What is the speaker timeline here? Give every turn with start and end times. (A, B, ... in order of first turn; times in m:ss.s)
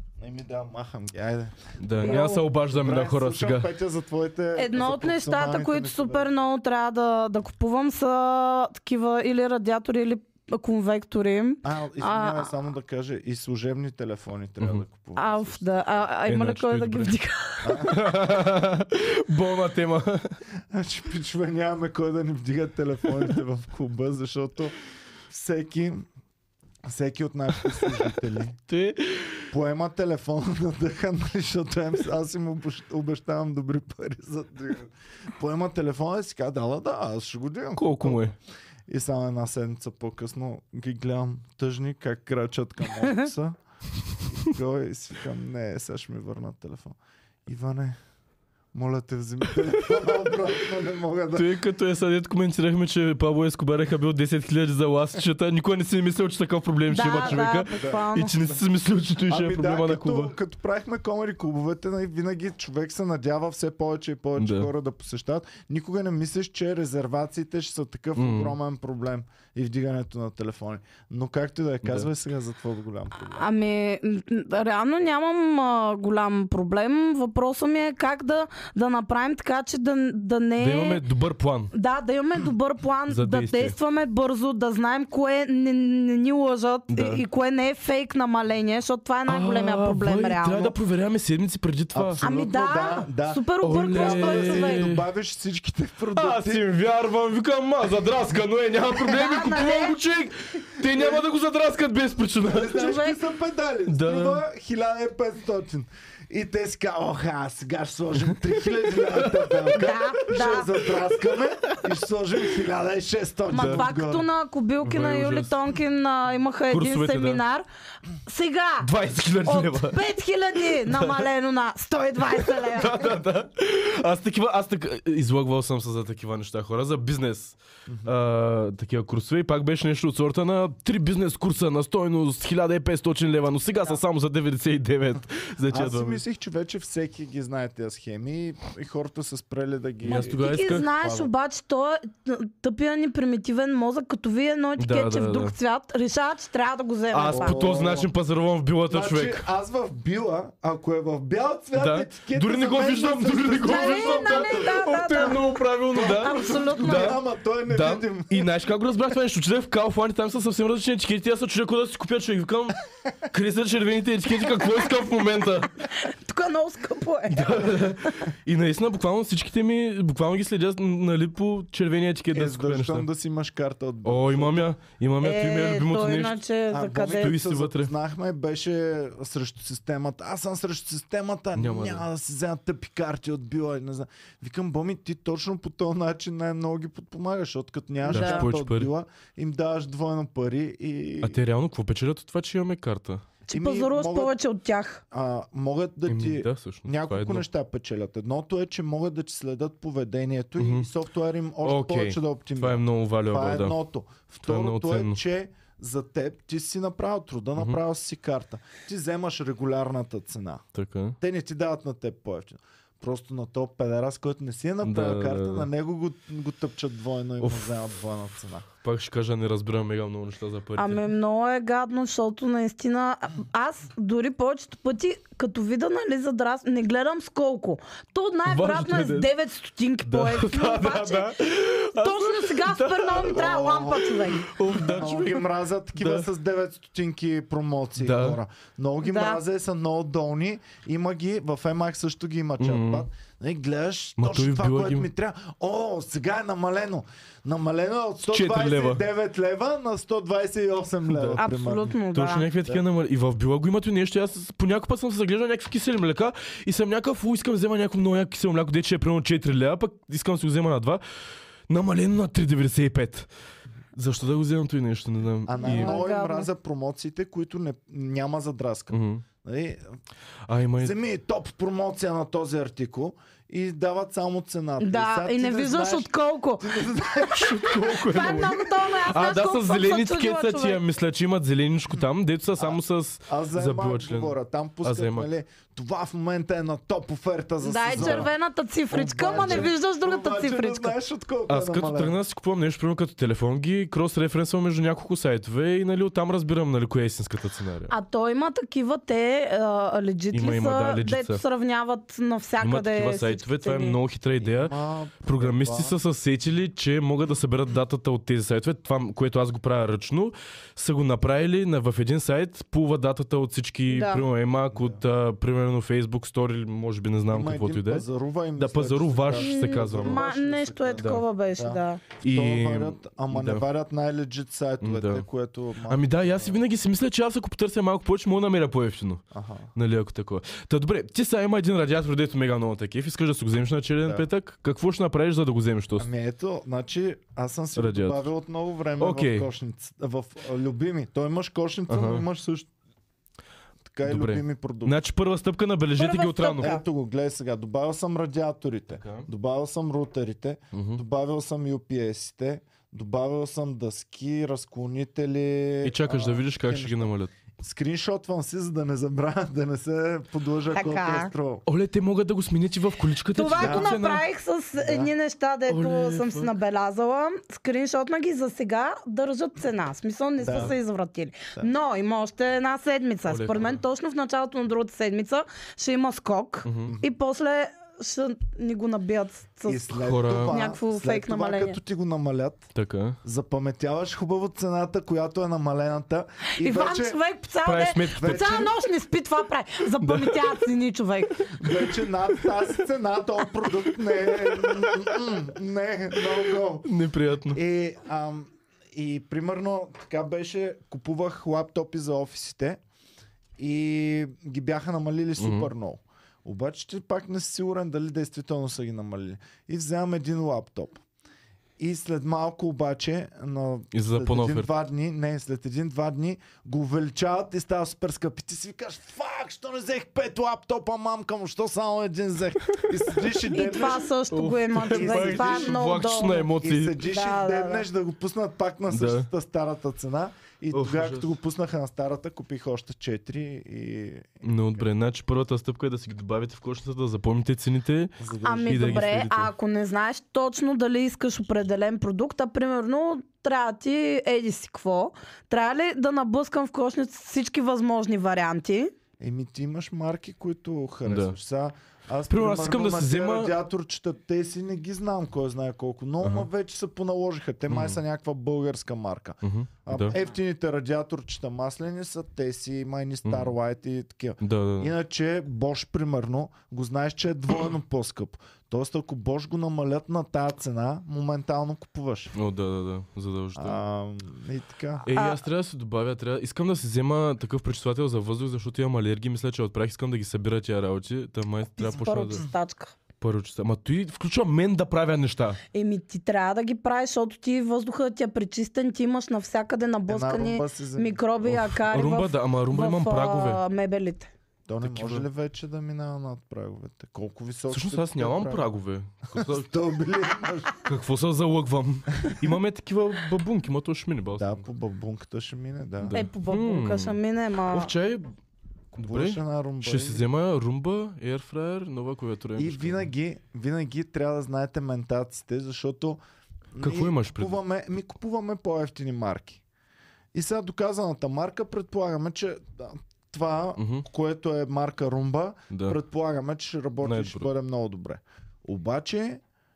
0:00.2-0:06.3 A
0:01.8-0:03.7 B
0:02.0-0:02.4 C
0:04.6-0:12.5 C
0:11.6-0:15.6 A
0:15.2-0:18.0 C
0:16.3-0:17.1 B
0:17.6-0:18.0 A
0:17.8-0:20.3 B
0:20.7-0:24.8 A
0:25.3-0:26.0 A
0:26.8-0:28.6 A
0:28.7-0:29.5 B
0:29.5-0:38.3 A
0:37.8-0:38.3 B
0:38.9-0:43.6 A
0:44.2-0:48.0 A
0:48.7-0:51.5 A
0:49.6-0:50.0 B
0:51.3-1:00.3 B
0:56.9-0:58.4 C
0:57.3-0:58.0 A
0:59.2-1:13.5 A
1:04.4-1:04.7 B
1:08.2-1:08.6 B
1:11.8-1:12.1 B
1:13.3-1:21.0 C
1:20.6-1:21.7 B
1:21.7-1:30.7 C
1:23.1-1:23.8 B
1:26.9-1:27.2 B
1:29.3-1:32.2 B
1:31.9-1:36.7 A
1:32.2-1:34.9 C
1:33.6-1:35.0 B
1:36.1-1:42.8 B
1:39.0-1:40.0 C
1:40.8-1:41.2 A
1:42.4-1:54.3 A
1:42.7-1:43.2 C
1:43.9-1:44.4 B
1:49.0-1:49.8 B
1:49.7-1:50.9 C
1:53.5-1:57.6 C
1:53.5-1:53.8 B
1:54.8-1:55.6 B
1:56.7-1:57.4 B
1:58.2-1:58.9 C
1:58.8-2:00.0 B
1:59.4-2:03.0 C
2:00.8-2:01.3 B
2:02.3-2:16.2 B
2:07.9-2:08.1 A
2:15.7-2:20.4 A
2:20.0-2:20.9 B
2:20.1-2:27.6 C
2:21.0-2:21.3 A
2:24.8-2:25.5 B
2:27.1-2:29.4 B
2:27.3-2:28.1 A
2:28.9-2:35.3 A
2:31.7-2:45.7 B
2:33.6-2:37.2 C
2:35.9-2:38.5 A
2:45.8-2:48.3 C
2:47.3-2:53.1 B
2:52.3-2:54.7 A
2:54.0-2:56.4 B
2:55.2-2:57.4 C
2:56.7-3:11.4 A
2:57.1-2:57.9 B
3:01.5-3:02.0 B
3:08.0-3:08.5 C
3:08.1-3:08.9 B
3:11.2-3:13.2 B
3:13.5-3:15.0 C
3:13.5-3:14.3 A
3:15.1-3:30.6 A
3:16.1-3:17.5 B
3:20.6-3:20.9 B
3:21.6-3:23.8 B
3:24.4-3:25.2 B
3:30.7-3:31.2 B
3:31.2-3:38.7 A
3:34.8-3:35.7 B
3:37.4-3:37.7 B
3:38.8-3:41.0 B
3:40.8-3:51.4 C
3:48.5-3:49.3 B
3:50.0-3:53.7 B
3:51.9-3:54.5 C
3:53.3-4:12.0 A
3:54.4-3:56.3 B
3:58.0-3:58.4 B
3:59.0-3:59.4 C
4:02.6-4:03.0 B
4:04.2-4:05.1 B
4:08.3-4:09.0 B
4:11.1-4:11.4 B
4:11.4-4:12.5 C
4:12.1-4:21.0 B
4:21.7-4:23.3 B
4:23.9-4:26.0 B
4:25.4-4:29.8 A
4:25.6-4:26.5 C
4:28.9-4:29.2 B
4:30.4-4:31.0 B
4:30.8-4:37.7 A
4:34.8-4:40.8 C
4:37.4-4:45.3 B
4:43.3-4:48.3 A
4:47.6-4:50.9 C
4:47.9-4:48.3 B
4:48.9-4:52.1 A
4:49.3-4:49.7 B
4:51.5-4:57.9 B
4:57.9-5:04.0 C
5:00.3-5:01.4 B
5:02.6-5:04.7 B
5:04.4-5:06.0 A
5:05.2-5:18.0 B
5:13.9-5:14.2 C
5:14.7-5:15.0 A
5:17.3-5:26.6 A
5:18.6-5:20.2 B
5:19.3-5:22.0 C
5:21.0-5:21.2 B
5:22.2-5:23.6 B
5:24.8-5:25.2 B
5:25.9-5:29.2 B
5:29.3-5:29.7 A
5:29.7-5:36.1 B
5:36.0-5:42.7 A
5:37.8-5:38.3 B
5:39.0-5:39.5 B
5:41.9-5:42.2 B
5:43.9-5:45.0 A
5:44.0-5:46.7 B
5:46.0-5:46.8 C
5:46.6-6:01.6 A
5:49.0-5:49.3 B
5:50.7-5:51.0 B
5:55.8-5:57.3 B
6:00.7-6:01.3 C
6:01.6-6:04.2 B
6:03.3-6:21.8 C
6:03.6-6:03.9 A
6:04.8-6:05.1 A
6:05.7-6:06.5 B
6:10.4-6:10.8 A
6:13.3-6:13.8 B
6:16.6-6:16.9 B
6:19.6-6:22.7 A
6:20.0-6:20.6 B
6:22.7-6:23.2 B
6:23.2-6:27.2 A
6:26.6-6:31.5 C
6:27.6-6:28.7 B
6:28.2-6:28.6 A
6:30.0-6:30.5 B
6:31.6-6:36.9 A
6:34.6-6:34.9 B
6:36.8-6:37.6 B
6:37.5-6:42.8 A
6:43.6-6:51.0 A
6:45.4-6:45.7 B
6:51.8-7:04.1 A
6:53.9-6:54.7 B
7:03.2-7:03.5 B
7:03.5-7:07.8 C
7:04.3-7:07.0 B
7:04.8-7:05.8 A
7:06.6-7:14.4 A
7:08.9-7:09.3 B
7:10.7-7:11.3 B
7:14.4-7:19.5 B
7:18.2-7:19.1 A
7:18.4-7:28.9 C
7:29.2-7:52.3 A
7:31.0-7:31.4 B
7:32.3-7:33.5 B
7:36.2-7:36.5 B
7:37.7-7:38.0 B
7:39.4-7:40.2 B
7:43.2-7:43.5 B
7:44.4-7:44.9 B
7:52.3-7:53.8 B
7:53.5-7:55.1 A
7:55.1-8:02.4 B
7:55.1-7:55.4 C
8:01.8-8:02.9 C
8:03.2-8:05.6 B
8:05.7-8:14.3 C
8:10.1-8:11.2 A
8:11.4-8:13.6 B
8:14.7-8:18.7 A
8:14.8-8:15.3 B
8:17.7-8:19.7 B
8:19.3-8:20.8 A
8:20.8-8:24.6 B
8:24.4-8:26.2 A
8:26.0-8:27.2 B
8:26.1-8:27.9 C
8:27.7-8:28.3 B
8:28.9-8:33.1 B
8:29.0-8:30.2 A
8:32.6-8:36.2 A
8:36.7-8:39.6 A
8:36.8-8:37.6 B
8:40.3-8:49.4 A
8:43.8-8:44.0 B
8:45.7-8:46.0 B
8:47.0-8:47.5 B